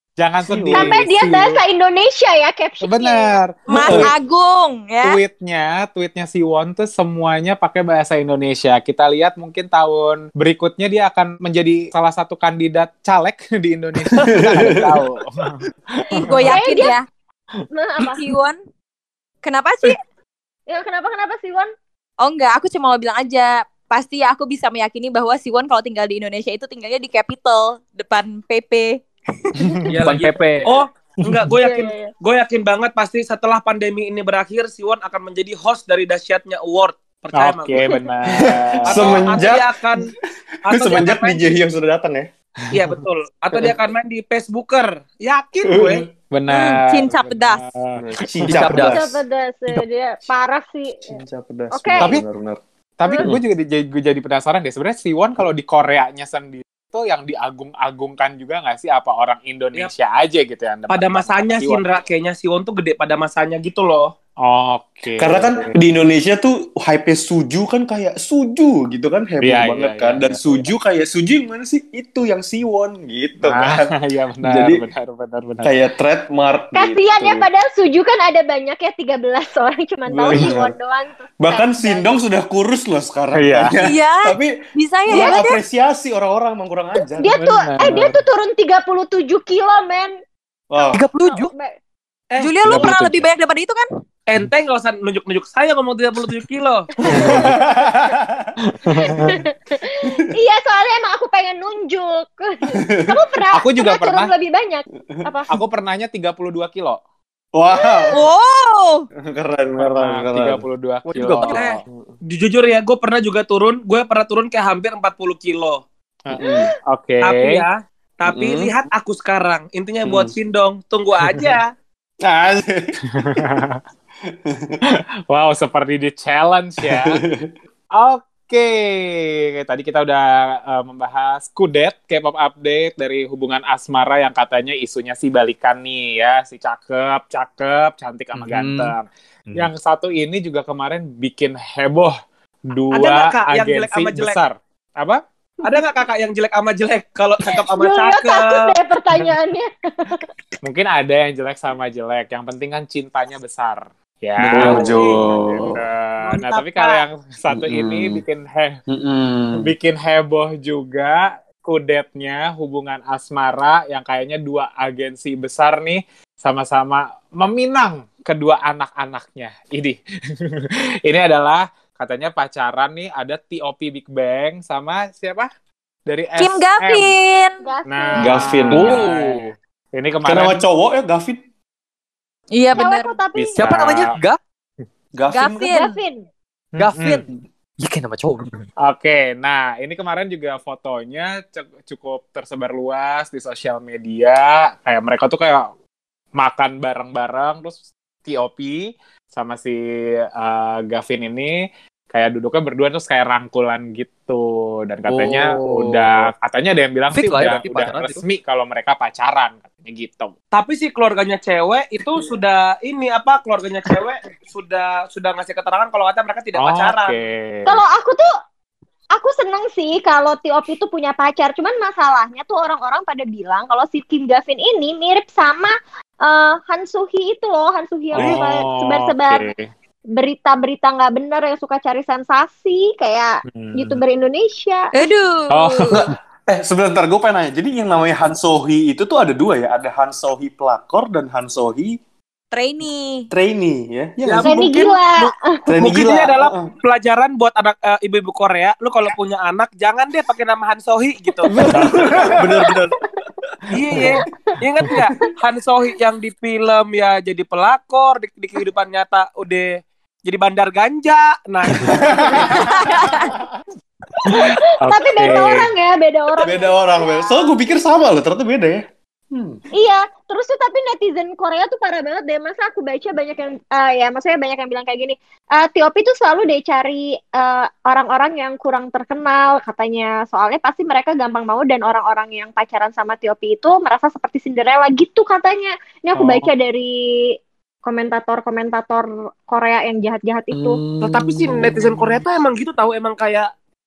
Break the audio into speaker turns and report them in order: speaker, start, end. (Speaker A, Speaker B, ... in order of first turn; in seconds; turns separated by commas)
Speaker A: 0.2-1.5, Speaker B: 0.5-0.9, Speaker C: 0.7-3.4, Speaker A: 2.8-4.1, Speaker D: 3.7-5.2, Speaker B: 3.7-4.1, Speaker A: 5.0-16.7, Speaker B: 14.1-15.0, Speaker D: 16.1-17.0, Speaker C: 16.4-16.9, Speaker C: 17.7-18.2, Speaker D: 18.0-18.6, Speaker D: 19.4-20.0, Speaker C: 20.7-21.7, Speaker D: 22.2-29.9, Speaker E: 29.9-30.7, Speaker F: 29.9-37.9, Speaker A: 31.2-31.5, Speaker C: 31.6-32.1, Speaker A: 37.4-39.4, Speaker C: 37.8-38.1, Speaker B: 38.3-40.0, Speaker F: 38.9-40.1, Speaker F: 40.7-41.6, Speaker B: 40.7-42.3, Speaker A: 42.6-42.9, Speaker F: 42.7-46.1, Speaker B: 45.6-46.1, Speaker A: 46.3-48.9, Speaker D: 46.5-47.6, Speaker B: 48.0-49.1, Speaker E: 48.4-49.0, Speaker C: 48.8-51.2, Speaker B: 51.0-52.6, Speaker C: 51.7-52.1, Speaker A: 53.0-61.9, Speaker F: 60.9-64.1, Speaker A: 64.4-65.8, Speaker B: 65.2-73.9, Speaker A: 69.4-70.7, Speaker A: 73.4-75.7, Speaker B: 74.4-74.8, Speaker B: 75.6-77.5, Speaker C: 76.7-82.1, Speaker B: 80.1-80.7, Speaker B: 81.4-84.5, Speaker A: 83.4-83.8, Speaker D: 83.8-85.6, Speaker B: 85.1-87.4, Speaker C: 85.1-85.4, Speaker C: 87.1-90.1, Speaker A: 87.4-88.2, Speaker B: 90.7-91.0, Speaker C: 90.8-91.8, Speaker E: 90.9-91.5, Speaker F: 92.3-92.9, Speaker D: 92.4-93.9, Speaker A: 92.7-93.1, Speaker B: 92.7-93.1, Speaker F: 94.3-96.9, Speaker A: 97.1-97.5, Speaker B: 97.1-98.5, Speaker C: 97.2-97.5, Speaker A: 98.6-99.4, Speaker C: 99.0-105.5, Speaker B: 102.7-103.1, Speaker A: 103.5-104.3, Speaker A: 105.5-107.0, Speaker B: 107.5-108.2, Speaker C: 107.7-108.2, Speaker D: 108.1-109.1, Speaker B: 109.2-110.6, Speaker A: 109.8-111.8, Speaker E: 111.1-111.7, Speaker F: 111.5-111.7, Speaker B: 111.9-112.2, Speaker F: 112.3-115.8, Speaker A: 116.3-117.6, Speaker B: 116.3-116.7, Speaker F: 117.2-121.7, Speaker B: 118.3-118.7, Speaker B: 120.1-120.4, Speaker B: 122.2-123.4, Speaker A: 123.1-123.8, Speaker B: 124.3-124.8, Speaker A: 124.8-127.2, Speaker B: 126.8-127.5, Speaker A: 128.0-145.2, Speaker E: 138.3-138.9, Speaker F: 142.9-144.4, Speaker F: 145.6-148.7, Speaker C: 147.7-150.2, Speaker A: 150.6-158.8, Speaker B: 154.4-155.7, Speaker F: 154.6-155.7, Speaker F: 156.2-157.0, Speaker B: 157.5-158.2, Speaker B: 158.9-159.7, Speaker A: 159.6-175.5, Speaker A: 176.1-177.1, Speaker D: 176.4-177.6, Speaker C: 177.6-178.6, Speaker A: 177.9-180.6, Speaker B: 178.2-179.1, Speaker E: 178.7-179.4, Speaker B: 180.2-181.4, Speaker D: 182.5-183.1, Speaker C: 182.7-183.7, Speaker A: 183.4-184.2, Speaker E: 183.6-184.4, Speaker B: 185.2-185.8, Speaker D: 185.3-186.0, Speaker C: 185.6-186.3, Speaker A: 186.8-187.2, Speaker E: 186.8-187.2, Speaker E: 187.8-188.6, Speaker A: 188.8-195.7, Speaker A: 196.4-199.8, Speaker A: 200.4-210.3, Speaker E: 205.1-206.3, Speaker E: 207.1-208.2, Speaker F: 210.5-217.2, Speaker A: 216.6-217.8, Speaker C: 217.7-218.3, Speaker C: 219.1-229.5, Speaker A: 228.1-229.7, Speaker F: 228.2-228.4, Speaker C: 230.2-234.9, Speaker A: 233.5-234.0, Speaker D: 234.9-235.9, Speaker A: 235.5-236.2, Speaker B: 235.9-242.0, Speaker D: 242.5-243.3, Speaker B: 243.3-244.9, Speaker F: 244.2-244.6, Speaker C: 244.4-245.7, Speaker B: 245.7-246.7, Speaker F: 245.8-251.5, Speaker B: 251.5-252.9, Speaker A: 251.7-252.4, Speaker F: 253.7-262.6, Speaker B: 261.8-263.4, Speaker D: 262.7-263.2, Speaker C: 264.2-267.5, Speaker A: 264.2-265.7, Speaker B: 266.4-269.6, Speaker C: 269.7-290.8, Speaker A: 286.1-286.5, Speaker B: 290.5-292.2, Speaker F: 291.0-293.5